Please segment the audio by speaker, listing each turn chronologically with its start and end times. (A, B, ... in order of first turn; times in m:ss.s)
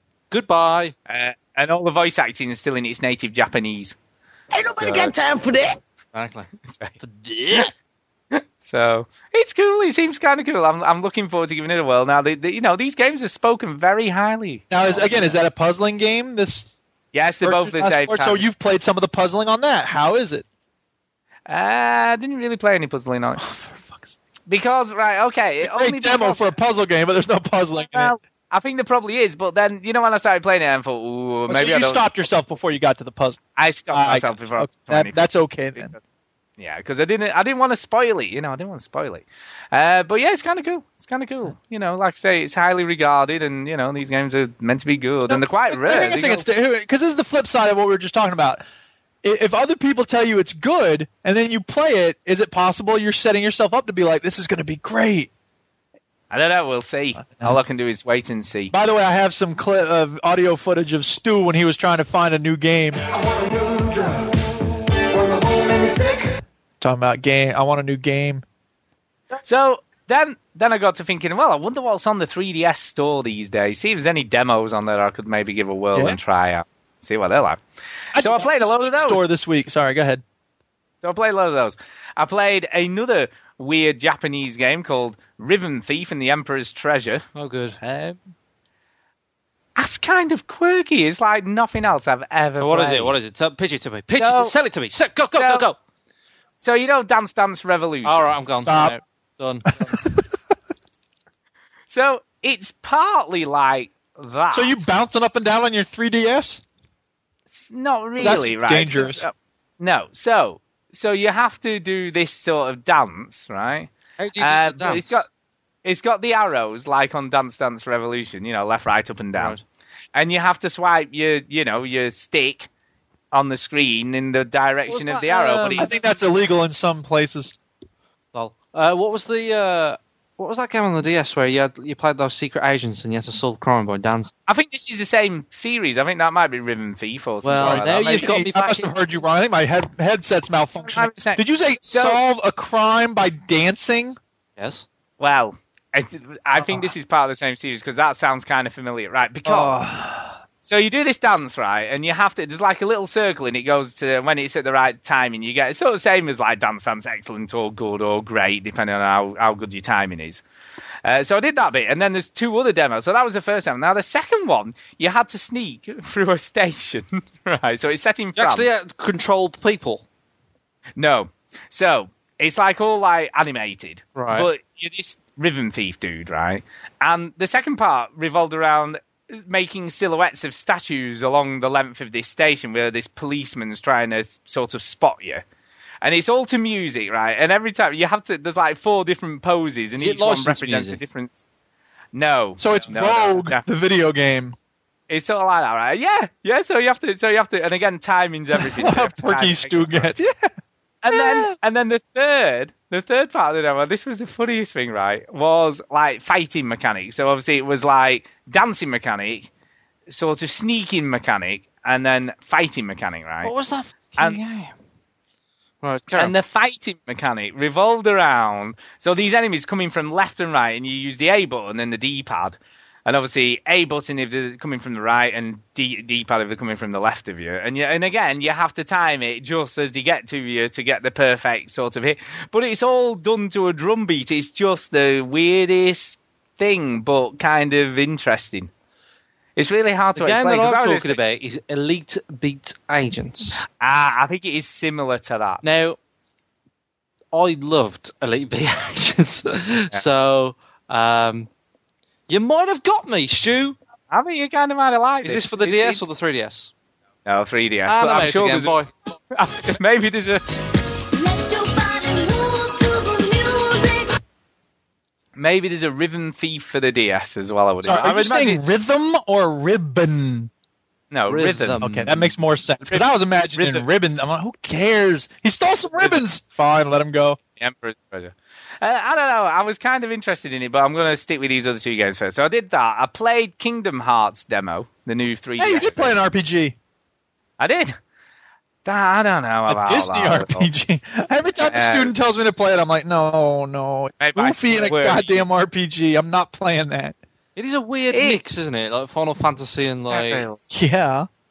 0:00.3-0:00.9 A
0:01.1-0:03.9 B
0:04.8-0:05.1 B
0:05.2-0:05.6 C
0:06.1-0:06.5 A
0:06.6-0:06.9 B
0:07.0-0:07.7 A
0:08.3-0:15.4 B
0:14.7-0:16.7 D
0:17.1-0:18.4 B
0:17.4-0:20.4 D
0:21.5-0:23.4 B
0:23.4-0:24.2 D
0:24.5-0:26.4 B
0:25.6-0:28.1 D
0:27.9-0:32.1 B
0:31.5-0:35.9 D
0:33.6-0:36.0 B
0:36.6-0:46.4 B
0:45.3-0:48.6 D
0:49.2-0:55.3 D
0:56.3-0:58.7 B
0:57.2-0:57.6 D
0:58.7-1:03.0 D
1:03.1-1:04.3 C
1:05.1-1:06.2 C
1:06.8-1:08.4 D
1:09.4-1:17.6 B
1:18.1-1:19.2 B
1:18.1-1:20.2 D
1:21.0-1:27.2 B
1:27.4-1:27.8 A
1:27.8-1:28.2 B
1:29.8-1:33.2 B
1:32.6-1:35.8 A
1:34.2-1:34.5 B
1:35.3-1:35.7 B
1:36.6-1:38.3 B
1:38.0-1:39.8 A
1:38.6-1:38.9 D
1:39.9-1:40.2 D
1:41.9-1:44.8 B
1:44.5-1:46.6 D
1:47.5-1:55.3 B
1:48.2-1:49.2 D
1:54.2-1:55.2 A
1:55.8-1:59.6 B
1:59.3-1:59.6 A
2:00.1-2:02.7 B
2:03.3-2:05.9 B
2:04.9-2:06.1 A
2:05.7-2:07.5 D
2:08.3-2:14.3 A
2:14.5-2:18.5 B
2:17.4-2:18.9 A
2:17.6-2:24.2 D
2:20.8-2:22.2 B
2:24.6-2:24.8 A
2:25.2-2:29.8 B
2:29.4-2:30.4 D
2:30.6-2:40.4 B
2:41.0-2:48.8 B
2:48.4-2:50.0 A
2:51.0-3:05.4 B
2:54.1-2:54.5 A
3:06.0-3:11.4 B
3:10.0-3:11.0 A
3:12.1-3:13.6 B
3:12.6-3:14.6 D
3:15.1-3:20.1 B
3:18.6-3:20.5 D
3:21.0-3:29.5 B
3:21.1-3:21.5 D
3:30.1-3:33.5 B
3:33.4-3:34.7 A
3:35.8-3:36.3 A
3:36.1-3:58.7 B
3:59.6-4:01.2 B
4:00.2-4:03.6 A
4:03.7-4:05.6 B
4:05.6-4:06.0 A
4:07.3-4:11.5 A
4:12.3-4:13.8 A
4:14.1-4:16.1 B
4:15.2-4:16.7 A
4:17.2-4:18.8 B
4:17.9-4:18.9 A
4:19.3-4:20.4 B
4:21.1-4:24.2 E
4:25.4-4:28.6 B
4:27.8-4:30.5 D
4:31.1-4:33.9 B
4:31.3-4:32.1 A
4:31.8-4:37.4 D
4:36.0-4:36.2 B
4:37.6-4:46.2 B
4:45.6-4:46.7 D
4:47.6-4:48.0 B
4:48.8-4:50.7 B
4:49.7-4:57.2 D
4:51.6-4:52.1 B
4:54.2-4:55.4 B
4:57.6-5:00.5 A
4:58.1-4:58.4 B
5:00.1-5:00.6 B
5:00.7-5:01.3 D